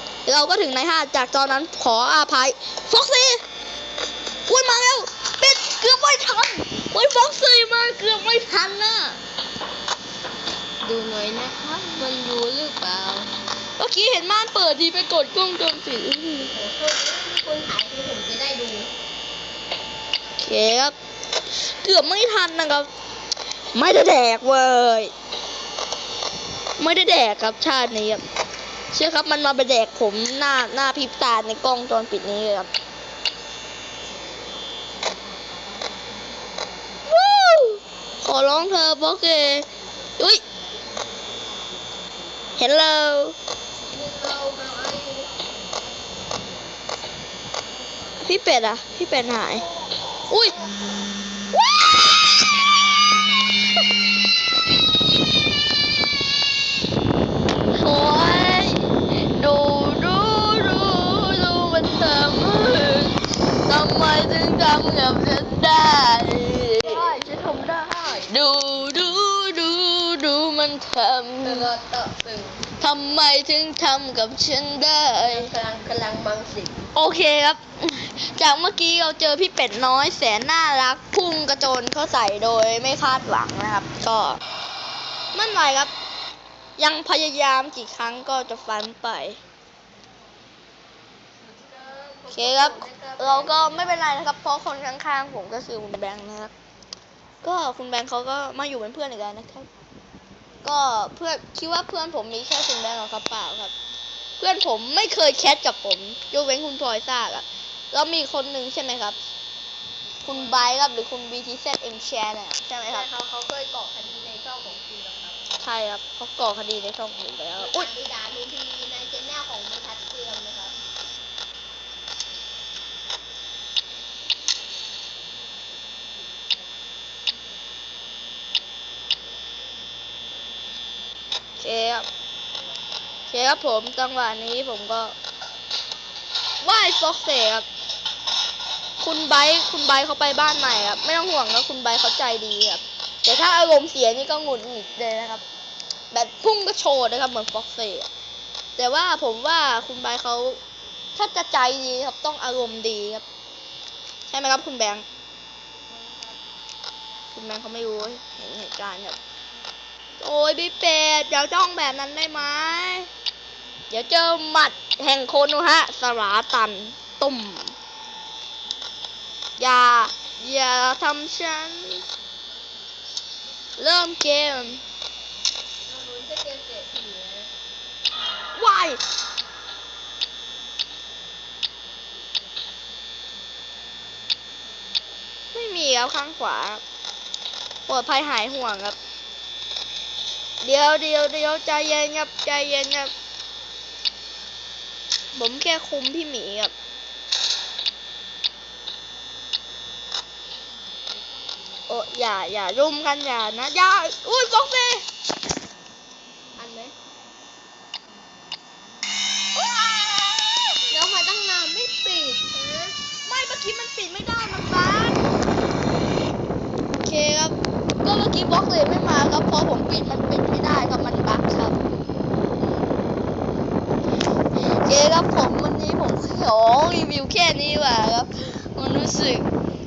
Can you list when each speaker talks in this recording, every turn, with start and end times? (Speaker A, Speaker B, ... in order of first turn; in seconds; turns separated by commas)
Speaker A: 0.2-3.4, Speaker A: 4.5-9.2, Speaker B: 10.8-13.3, Speaker A: 13.8-16.5, Speaker B: 16.4-18.9, Speaker A: 20.4-20.9, Speaker A: 21.5-22.9, Speaker A: 23.7-25.1, Speaker A: 26.8-28.2, Speaker A: 28.9-32.7, Speaker A: 37.0-40.4, Speaker A: 42.5-43.4, Speaker B: 43.9-45.4, Speaker A: 48.2-49.6, Speaker A: 50.3-50.5, Speaker A: 57.7-67.1, Speaker B: 66.8-68.3, Speaker A: 68.2-71.7, Speaker B: 71.4-72.7, Speaker A: 72.8-75.5, Speaker B: 75.2-76.8, Speaker A: 76.9-84.4, Speaker A: 85.3-85.9, Speaker A: 86.8-89.4, Speaker B: 91.4-94.0, Speaker A: 92.3-96.5, Speaker A: 97.4-99.7, Speaker A: 100.6-103.7, Speaker A: 104.4-109.2, Speaker A: 110.2-113.1, Speaker B: 110.3-110.6, Speaker B: 112.8-115.4, Speaker A: 115.6-117.9, Speaker B: 117.5-120.7, Speaker A: 131.6-132.1, Speaker A: 133.3-135.2, Speaker A: 136.6-137.6, Speaker A: 139.0-145.4, Speaker A: 146.1-148.1, Speaker A: 148.8-150.6, Speaker A: 151.1-153.2, Speaker A: 154.3-155.0, Speaker B: 155.9-156.4, Speaker A: 157.3-159.2, Speaker A: 160.2-163.1, Speaker A: 163.9-167.7, Speaker A: 169.6-172.0, Speaker A: 173.8-174.8, Speaker B: 175.8-177.5, Speaker A: 178.5-179.0, Speaker A: 185.5-186.8, Speaker A: 187.9-189.0, Speaker A: 190.6-193.1, Speaker A: 195.3-196.7, Speaker A: 201.9-205.1, Speaker B: 206.6-206.9, Speaker A: 209.6-210.8, Speaker B: 210.9-212.9, Speaker A: 213.2-215.3, Speaker A: 217.0-221.8, Speaker A: 224.8-229.5